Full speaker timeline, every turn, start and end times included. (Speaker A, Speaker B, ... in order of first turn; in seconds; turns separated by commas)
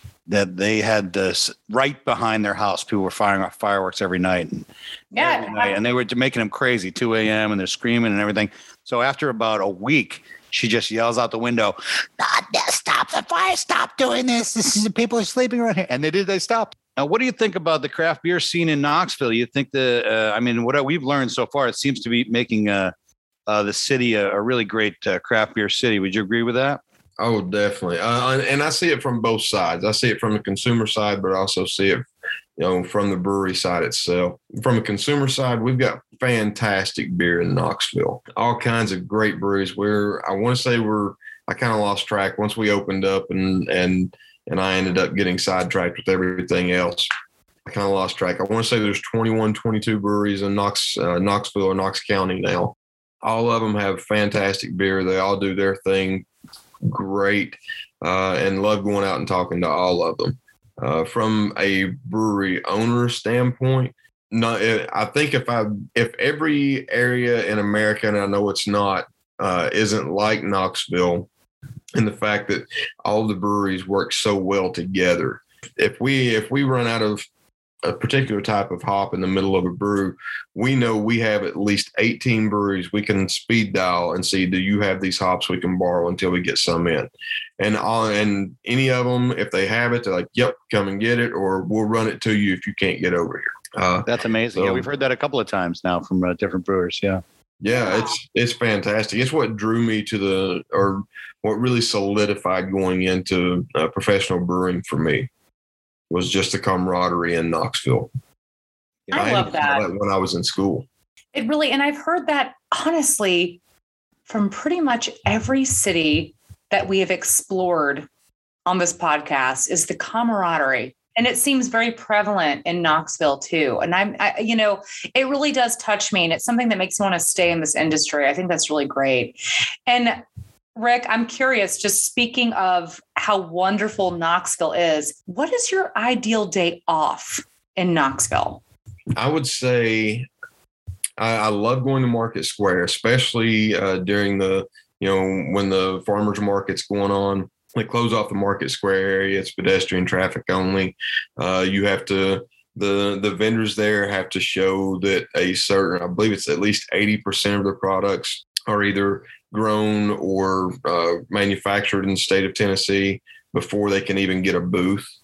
Speaker A: 0.3-22.9, Speaker B: 5.1-5.8, Speaker A: 23.5-26.8, Speaker C: 27.2-32.0, Speaker C: 32.6-47.1, Speaker C: 47.6-56.2, Speaker C: 56.8-71.3, Speaker C: 71.9-77.2, Speaker C: 77.8-94.9, Speaker A: 94.0-97.2, Speaker C: 97.6-105.3, Speaker B: 97.8-98.1, Speaker C: 106.1-108.1, Speaker A: 109.1-109.4, Speaker B: 109.1-109.8, Speaker C: 109.1-110.8, Speaker B: 111.3-113.6, Speaker B: 114.3-118.1, Speaker B: 118.7-129.3, Speaker B: 129.9-130.2, Speaker B: 130.7-138.6, Speaker C: 139.2-140.3, Speaker C: 141.2-165.1